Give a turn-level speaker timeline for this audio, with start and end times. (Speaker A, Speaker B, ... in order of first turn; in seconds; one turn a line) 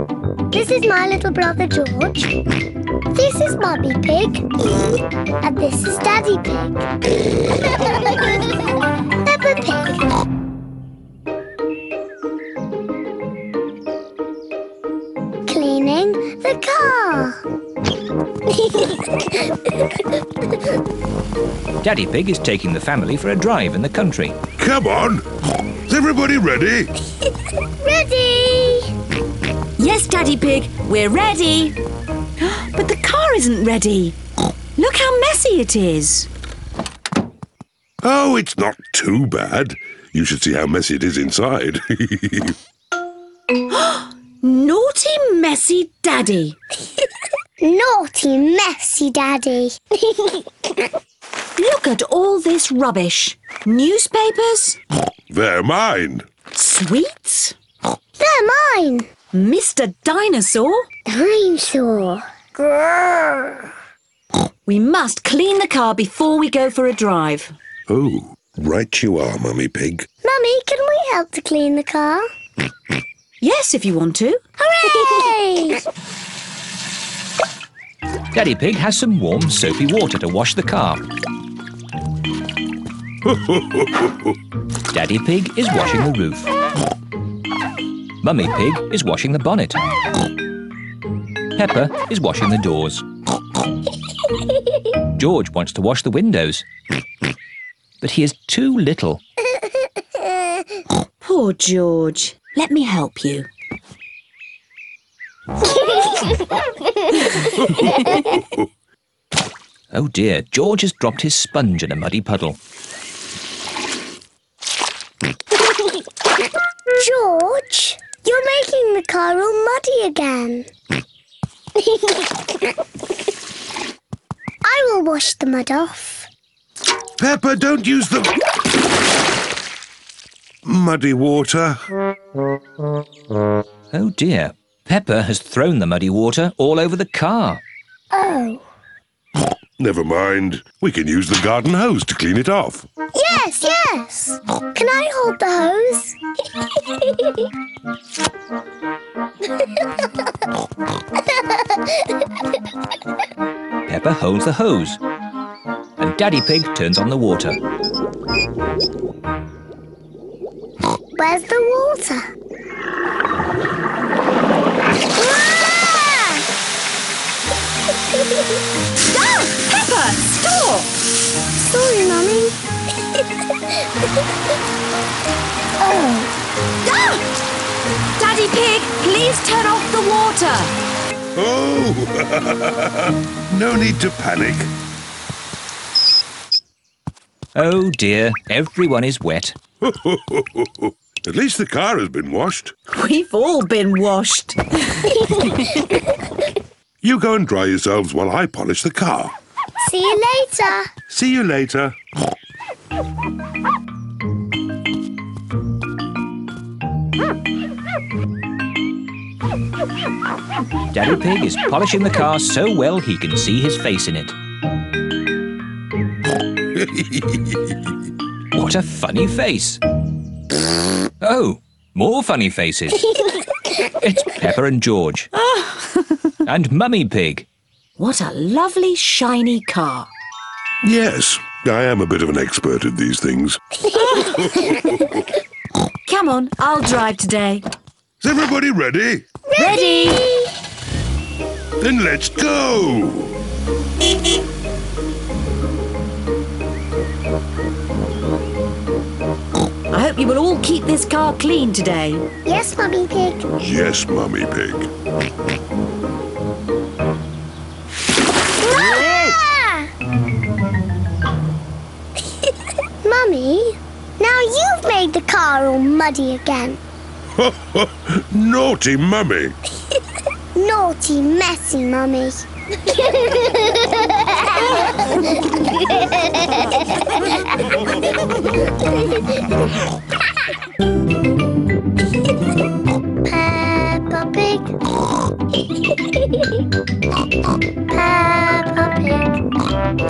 Speaker A: 0.5-2.3
Speaker A: 3.1-4.5
Speaker A: 5.4-8.4
Speaker A: 9.2-10.0
Speaker A: 15.5-17.4
Speaker A: 18.5-19.7
Speaker B: 21.8-24.4
Speaker C: 24.6-25.2
Speaker C: 25.9-26.9
Speaker A: 27.8-28.9
Speaker D: 29.8-31.8
Speaker D: 32.4-34.2
Speaker D: 34.8-36.3
Speaker C: 38.0-42.5
Speaker D: 43.7-46.6
Speaker A: 47.6-50.4
Speaker D: 51.6-54.8
Speaker C: 55.3-56.2
Speaker D: 56.5-57.5
Speaker A: 58.2-59.1
Speaker D: 59.3-60.9
Speaker A: 61.1-63.7
Speaker D: 64.7-67.5
Speaker C: 67.9-70.1
Speaker A: 70.2-72.2
Speaker D: 73.4-75.3
Speaker A: 74.8-75.8
Speaker B: 78.3-81.0
Speaker C: 83.2-84.1
Speaker B: 84.9-86.5
Speaker B: 88.2-89.8
Speaker B: 91.5-93.0
Speaker B: 95.0-96.6
Speaker B: 98.0-99.2
Speaker D: 101.2-103.5
Speaker D: 107.9-108.1
Speaker B: 109.9-112.6
Speaker A: 117.0-120.7
Speaker A: 124.6-126.3
Speaker C: 127.2-128.3
Speaker C: 130.6-131.9
Speaker B: 133.9-137.6
Speaker A: 138.1-138.6
Speaker C: 139.8-142.9
Speaker A: 143.1-146.2
Speaker A: 147.1-147.4
Speaker A: 151.5-151.9
Speaker B: 153.8-155.0
Speaker B: 156.0-157.6
Speaker A: 161.2-162.2
Speaker A: 165.1-166.4
Speaker D: 169.1-170.9
Speaker A: 171.6-172.6
Speaker A: 175.8-176.3
Speaker D: 176.8-177.2
Speaker D: 178.2-180.7
Speaker C: 181.3-184.7
Speaker B: 187.5-189.6
Speaker C: 189.8-192.7
Speaker D: 192.9-195.4
Speaker A: 195.2-195.5
Speaker C: 197.0-199.3
Speaker A: 199.8-200.9
Speaker C: 201.1-202.0
Speaker B: 210.9-214.3
Speaker C: 216.8-217.6
Speaker B: 218.5-219.8
Speaker B: 221.2-223.1
Speaker B: 223.8-225.3
Speaker D: 225.4-226.0
Speaker B: 226.4-227.5
Speaker D: 228.0-230.1
Speaker C: 230.8-233.6
Speaker A: 233.9-234.7
Speaker D: 233.9-234.7
Speaker C: 234.4-235.2
Speaker D: 236.0-237.6
Speaker C: 238.2-239.2
Speaker A: 239.5-240.5
Speaker D: 239.6-240.2
Speaker C: 241.8-243.4
Speaker D: 249.9-252.2
Speaker A: 252.4-253.5
Speaker C: 253.6-254.9
Speaker A: 258.6-259.9
Speaker A: 263.0-266.8
Speaker C: 267.4-269.6
Speaker A: 270.5-275.2
Speaker A: 275.8-276.2
Speaker A: 277.1-277.4
Speaker A: 283.2-284.8
Speaker A: 287.9-289.4